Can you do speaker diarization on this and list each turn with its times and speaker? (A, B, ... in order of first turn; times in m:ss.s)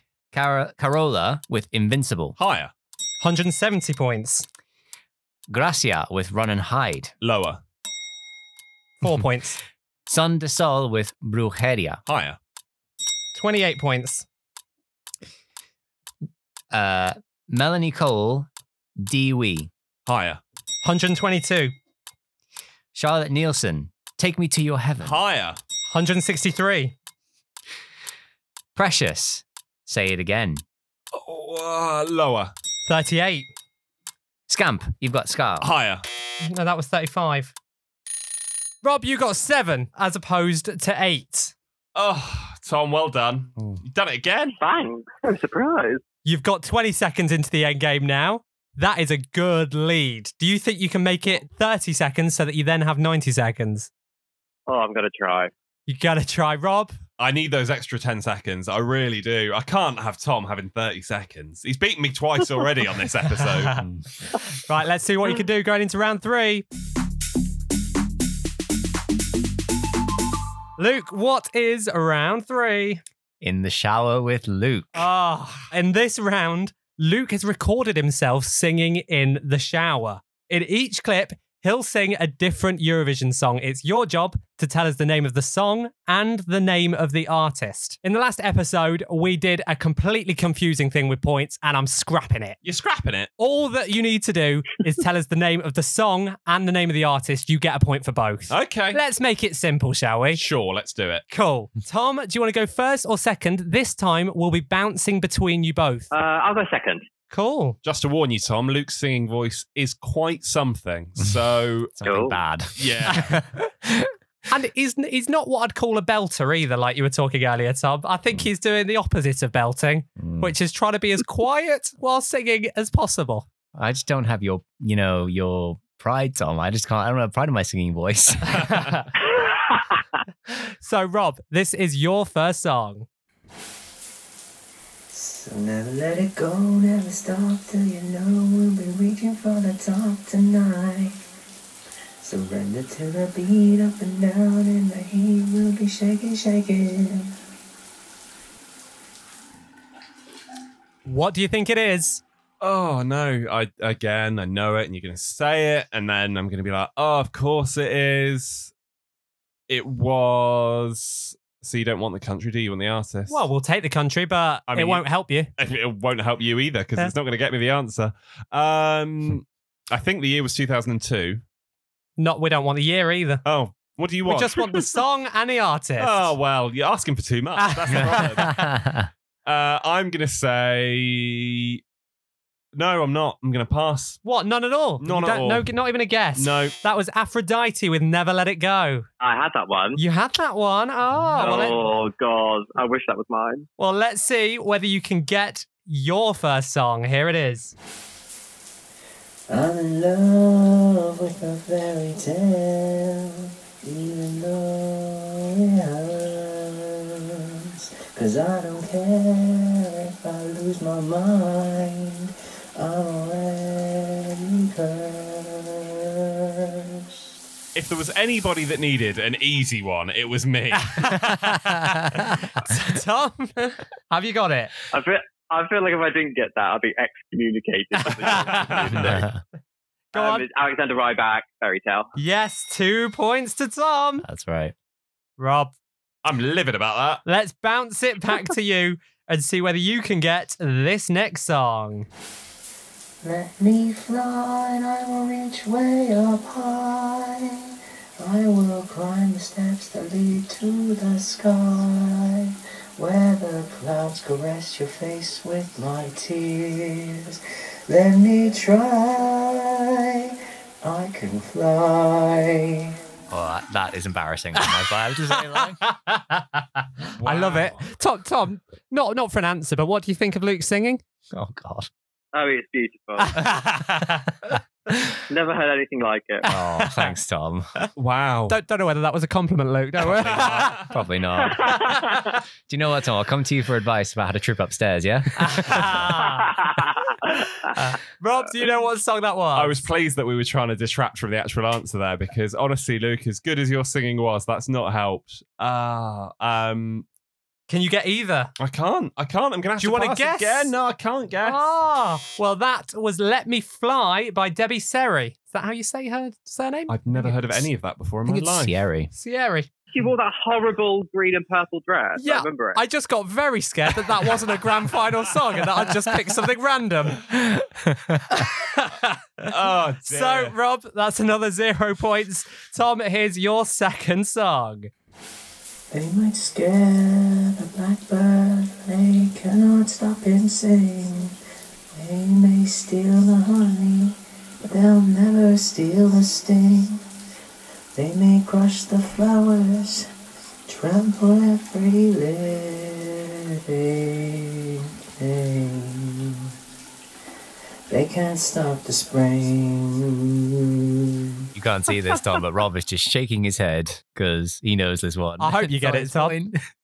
0:00.3-0:02.4 A
0:02.4-0:02.7 B
0:03.2-0:04.5 C
0:05.5-0:07.1 A
0:07.2-0:07.6 B
0:09.0-0:09.6 C
0:10.1-0:12.0 A
0:12.1-0:12.4 B
0:13.4-0:14.3 C
0:16.7-0:18.5 A
0:19.0-0:19.7 A
0:20.1-0:20.4 B
0:20.8-0:21.7 C
0:23.0-0:25.2 A
0:25.0-0:25.6 B
0:25.9-0:26.9 C
0:28.8-0:30.6 A
0:31.1-0:32.5 B
0:32.9-0:33.5 C
0:34.5-0:35.7 A
0:35.6-0:36.0 B
0:36.4-0:37.5 C
0:38.8-0:41.5 C
0:42.0-0:44.6 B
0:44.6-0:46.0 D
0:46.2-0:53.9 C
0:54.7-0:55.5 D
0:55.9-0:57.0 C
0:57.2-1:03.9 B
1:03.4-1:03.7 C
1:04.6-1:06.6 C
1:10.8-1:13.0 C
1:13.4-1:15.1 A
1:15.0-1:32.6 C
1:32.6-1:33.3 B
1:33.4-1:40.4 C
1:38.5-1:39.0 B
1:40.4-1:41.3 B
1:41.3-1:46.1 C
1:46.1-1:47.0 D
1:47.3-1:47.8 C
1:47.8-1:52.0 B
1:52.0-1:54.1 A
1:52.0-1:52.4 D
1:52.8-1:53.4 B
1:54.5-2:03.5 C
2:00.2-2:00.5 A
2:03.8-2:08.8 A
2:08.5-2:09.1 C
2:10.6-2:13.1 C
2:15.1-2:21.1 E
2:22.2-2:27.3 E
2:31.1-2:32.2 C
2:32.6-2:38.7 B
2:39.7-2:43.4 B
2:43.3-2:45.5 C
2:44.7-2:45.0 B
2:45.6-2:51.4 B
2:52.2-2:53.4 C
2:53.4-2:54.8 B
2:54.3-2:56.4 C
2:56.0-2:58.7 B
2:57.6-2:58.5 C
2:58.1-2:59.1 A
2:59.4-3:01.8 B
3:02.8-3:04.2 B
3:04.2-3:09.1 C
3:05.0-3:05.7 B
3:06.4-3:06.8 B
3:09.2-3:10.0 D
3:10.0-3:11.8 C
3:11.4-3:13.6 D
3:13.8-3:17.8 C
3:19.5-3:37.0 E
3:37.8-3:41.2 B
3:40.8-3:44.7 C
3:44.9-3:49.3 D
3:48.0-3:49.1 C
3:48.6-3:49.2 B
3:48.9-3:49.4 A
3:50.1-3:50.4 C
3:50.1-3:52.1 D
3:52.2-3:54.3 C
3:54.2-3:54.7 A
3:55.4-3:55.7 C
3:56.2-3:57.2 B
3:57.2-4:02.1 C
4:03.2-4:17.4 E
4:17.9-4:22.9 E
4:23.3-4:25.8 A
4:25.3-4:31.0 C
4:27.2-4:27.9 B
4:31.3-4:31.9 A
4:32.3-4:33.4 D
4:33.2-4:34.5 C
4:35.3-4:36.5 D
4:36.4-4:37.1 C
4:36.5-4:37.7 A
4:38.0-4:38.6 B
4:38.5-4:40.8 C
4:40.0-4:40.9 B
4:40.9-4:42.0 A
4:41.4-4:42.2 D
4:41.8-4:42.4 C
4:42.7-4:46.1 A
4:45.4-4:46.6 C
4:46.3-4:47.1 D
4:47.2-4:49.8 C
4:49.6-4:57.1 B
4:57.7-4:58.5 C
4:58.6-5:01.6 B
4:59.8-5:00.7 C
5:01.4-5:07.7 C
5:06.9-5:08.8 B
5:08.2-5:09.1 A
5:09.1-5:09.7 C
5:09.9-5:12.8 D
5:12.2-5:17.2 C
5:17.3-5:18.3 A
5:18.3-5:19.5 C
5:19.4-5:20.5 B
5:20.0-5:24.9 C
5:25.9-5:31.3 E
5:32.0-5:37.0 E
5:38.0-5:40.1 E
5:40.7-5:46.5 E
5:47.9-5:50.4 E
5:51.6-5:56.6 A
5:55.4-5:56.4 C